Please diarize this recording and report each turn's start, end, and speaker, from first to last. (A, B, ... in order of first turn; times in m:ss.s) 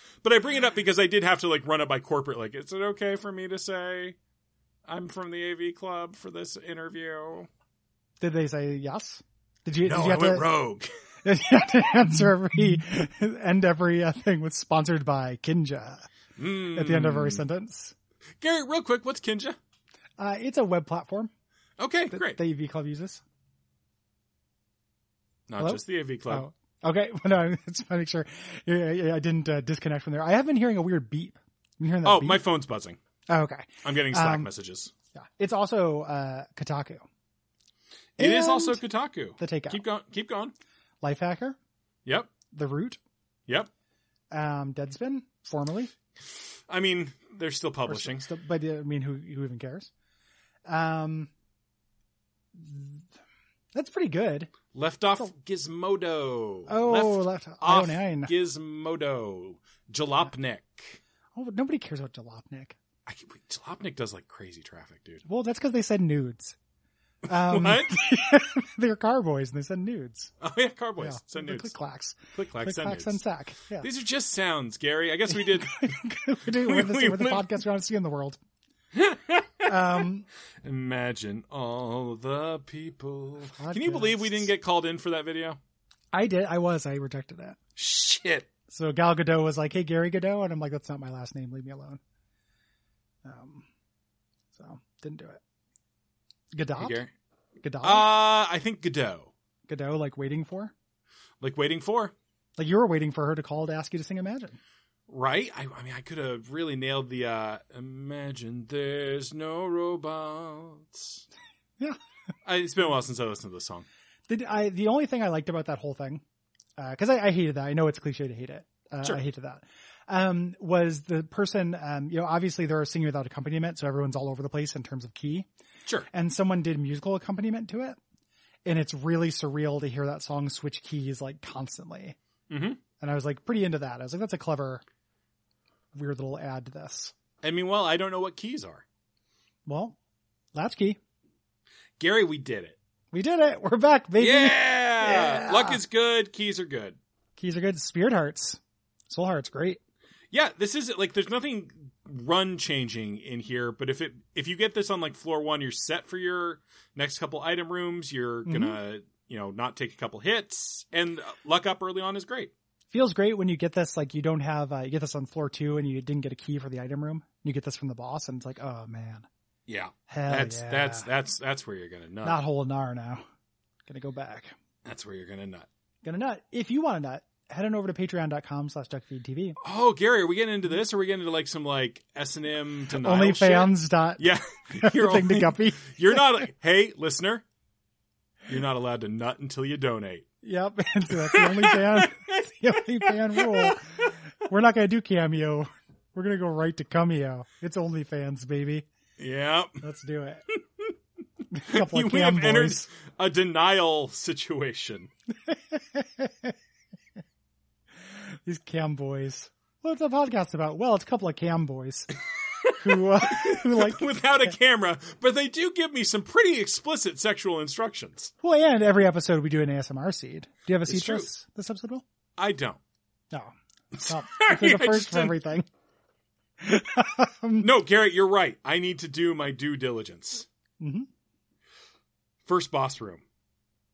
0:00.2-0:04.2 A
0:04.8-0:07.5 A
0:08.2-0:10.5 B
0:09.8-0:10.9 A
0:11.2-0:16.1 B
0:16.4-0:17.4 A
0:16.7-0:17.9 B
0:18.4-0:19.6 A
0:20.2-0:21.3 B
0:21.8-0:22.4 A
0:22.1-0:23.2 B
0:25.5-0:26.4 A
0:25.6-0:32.4 B
0:32.0-0:33.0 A
0:33.3-0:34.5 B
0:33.8-0:34.9 A
0:35.2-0:37.0 B
0:38.2-0:40.5 A
0:38.2-0:38.8 B
0:39.4-0:39.8 B
0:41.0-0:41.6 B
0:42.0-0:42.3 A
0:42.5-0:43.0 B
0:44.3-0:45.9 B
0:46.7-0:48.3 A
0:47.9-0:49.9 B
0:50.6-0:51.3 B
0:52.5-0:53.0 B
0:53.7-0:54.5 B
0:54.7-1:01.0 A
0:56.7-0:58.3 B
1:01.3-1:02.8 B
1:03.0-1:05.2 A
1:05.2-1:06.6 B
1:07.2-1:08.0 A
1:07.2-1:10.3 B
1:10.4-1:11.7 A
1:11.0-1:13.9 B
1:12.3-1:13.2 A
1:13.8-1:15.9 A
1:15.3-1:18.4 B
1:16.5-1:17.5 A
1:18.9-1:19.7 A
1:19.6-1:20.3 B
1:20.6-1:25.6 A
1:23.6-1:24.5 B
1:26.1-1:27.6 B
1:27.8-1:28.5 A
1:28.7-1:32.0 B
1:33.2-1:33.6 B
1:34.5-1:35.4 B
1:36.5-1:37.0 B
1:36.8-1:37.1 A
1:37.6-1:38.1 B
1:37.8-1:39.3 A
1:39.7-1:40.7 B
1:41.4-1:42.1 A
1:42.6-1:44.6 B
1:45.1-1:51.2 A
1:52.4-1:53.8 A
1:54.3-1:56.2 B
1:56.8-2:05.5 B
2:06.1-2:08.0 B
2:08.6-2:12.2 B
2:12.5-2:12.8 A
2:13.0-2:14.8 B
2:15.9-2:17.1 B
2:17.4-2:18.8 A
2:19.6-2:20.0 B
2:20.5-2:21.0 B
2:22.0-2:22.8 A
2:23.1-2:25.8 B
2:24.2-2:27.0 A
2:27.4-2:29.8 B
2:30.3-2:42.5 A
2:38.4-2:38.8 B
2:42.9-2:49.3 B
2:49.7-2:52.4 A
2:50.1-2:51.1 B
2:52.2-2:53.2 B
2:53.8-2:54.5 B
2:54.8-2:55.7 A
2:56.0-2:59.6 B
2:59.6-3:07.4 A
3:02.9-3:06.2 B
3:08.5-3:10.2 A
3:10.4-3:18.8 B
3:11.1-3:12.1 A
3:13.0-3:13.8 A
3:19.2-3:19.7 A
3:19.8-3:20.4 B
3:21.5-3:22.9 B
3:21.7-3:25.1 A
3:25.5-3:26.5 B
3:28.4-3:32.1 B
3:32.6-3:38.3 A
3:32.8-3:34.5 B
3:38.4-3:42.0 B
3:40.8-3:41.3 A
3:42.4-3:42.8 A
3:43.3-3:45.7 B
3:43.9-3:45.4 A
3:46.6-3:47.7 B
3:47.6-3:50.5 A
3:50.8-3:51.1 B
3:52.4-3:53.2 A